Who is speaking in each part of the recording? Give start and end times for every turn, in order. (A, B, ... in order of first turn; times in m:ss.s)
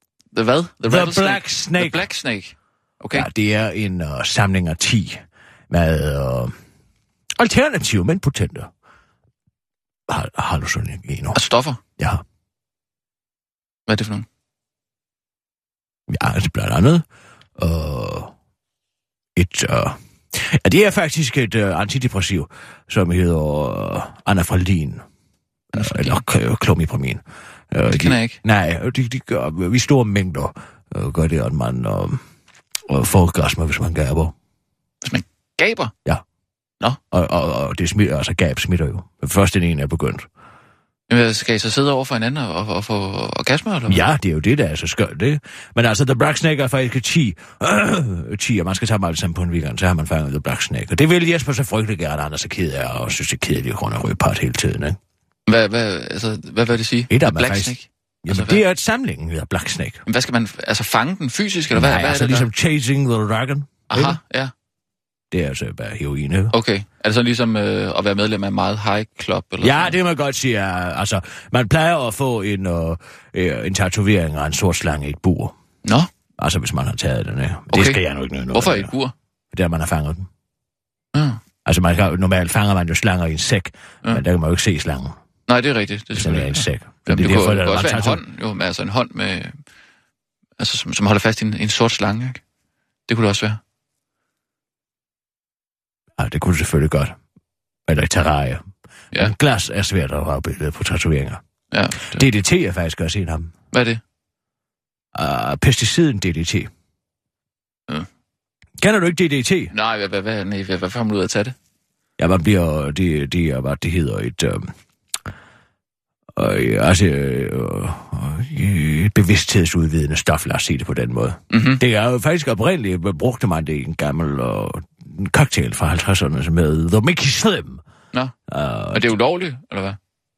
0:00.3-0:03.3 A
0:00.9-0:02.0 B
0:03.1-0:06.5 B
0:07.4-0:08.7 B
0:10.1-0:11.4 B
0:11.3-0:11.8 A
0:13.9-0:14.2 A
0:16.1-0:17.0 B
0:17.6-0:18.3 B
0:19.4-0:25.0 B
0:25.7-0:26.2 A
0:25.7-0:32.2 B
0:27.9-0:28.4 A
0:32.9-0:34.3 B
0:35.0-0:35.9 A
0:37.1-0:40.3 B
0:41.1-0:44.0 A
0:43.9-0:55.0 B
0:55.5-0:58.6 A
0:57.1-1:00.0 B
1:00.1-1:02.5 A
1:01.7-1:04.2 B
1:03.9-1:04.5 A
1:05.3-1:06.5 B
1:06.5-1:09.9 A
1:09.6-1:15.5 B
1:16.4-1:18.9 B
1:17.7-1:18.0 A
1:18.5-1:19.1 A
1:19.5-1:20.3 B
1:21.1-1:21.4 A
1:21.6-1:25.2 B
1:25.5-1:29.6 A
1:26.1-1:28.2 B
1:30.6-1:32.4 A
1:33.1-1:33.6 A
1:36.2-1:37.1 B
1:37.9-1:41.4 B
1:41.7-1:42.2 A
1:42.1-1:43.5 B
1:43.7-1:44.0 A
1:45.1-1:46.7 B
1:48.8-1:49.7 B
1:49.7-1:51.5 A
1:52.2-1:54.7 B
1:56.4-2:07.8 B
2:01.5-2:01.8 A
2:08.5-2:09.1 B
2:08.9-2:10.0 A